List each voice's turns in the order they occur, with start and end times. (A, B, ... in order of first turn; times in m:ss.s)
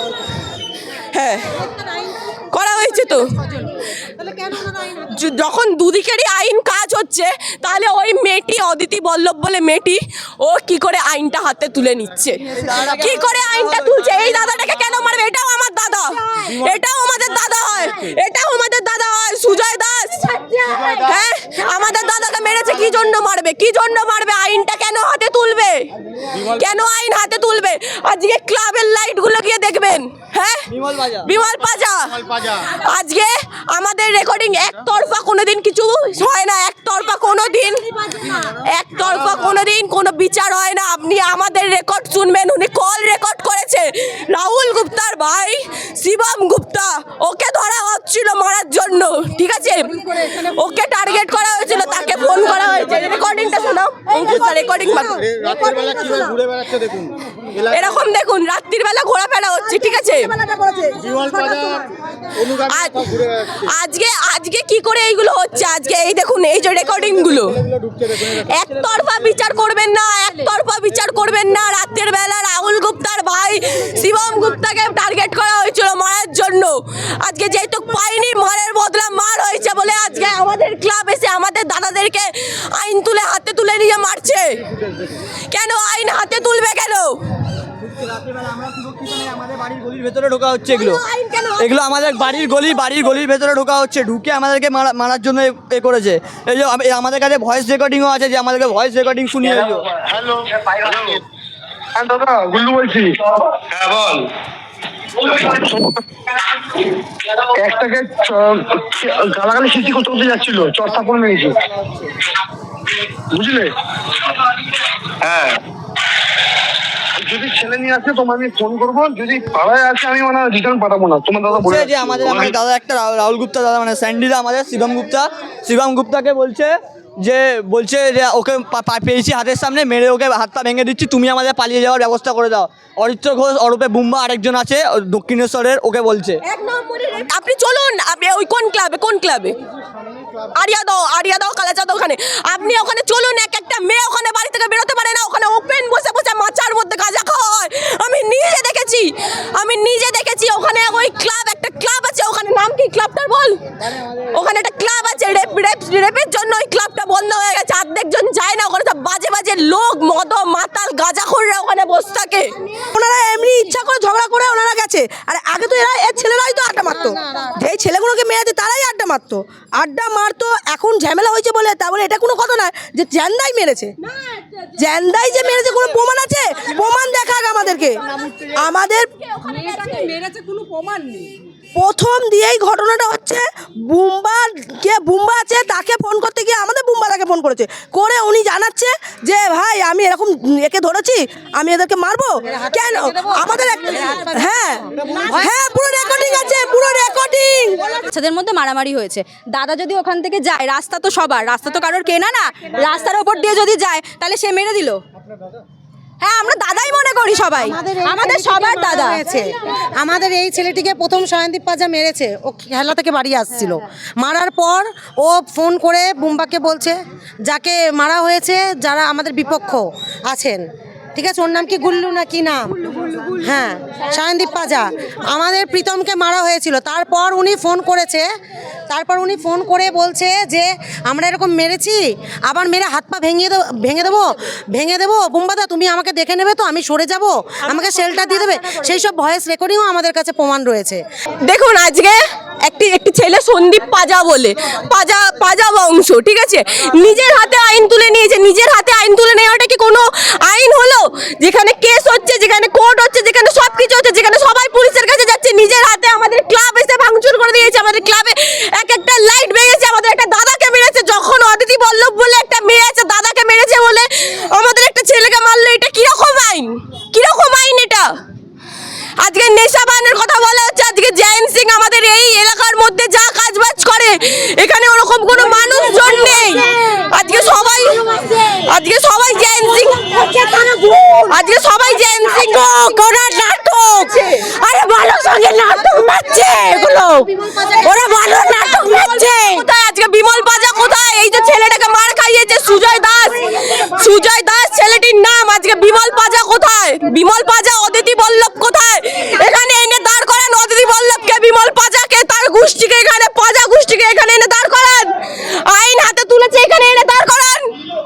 0:01.0-0:01.7 A
0:02.5-0:03.7 A
0:04.9-0:30.7 A
0:12.5-0:14.2 B
0:30.7-0:31.3 B
0:31.2-0:55.5 A
0:55.4-0:56.3 C
0:57.5-1:00.3 A
1:00.4-1:01.8 C
1:02.4-1:24.6 A
1:25.5-1:27.2 A
1:27.8-1:31.0 B
1:30.8-1:31.6 A
1:31.6-1:39.9 B
1:40.0-1:41.2 D
1:41.9-1:44.3 D
1:45.2-1:46.0 D
1:47.4-1:51.6 D
1:53.3-1:53.7 D
1:55.2-1:55.6 D
1:57.2-2:02.6 D
2:01.5-2:16.4 B
2:16.9-2:19.6 A
2:20.5-2:42.6 A
2:42.9-2:53.9 E
2:46.9-2:47.5 F
2:54.8-2:58.0 E
2:58.6-2:59.1 E
2:59.4-3:00.1 A
2:59.4-3:01.3 C
3:01.8-3:18.0 E
3:12.5-3:15.6 F
3:18.0-3:25.0 C
3:26.2-3:29.2 C
3:27.5-3:40.6 F
3:41.2-3:48.2 F
3:48.9-4:01.0 F
4:01.4-4:28.1 A
4:29.2-5:07.7 A
4:49.1-4:49.5 C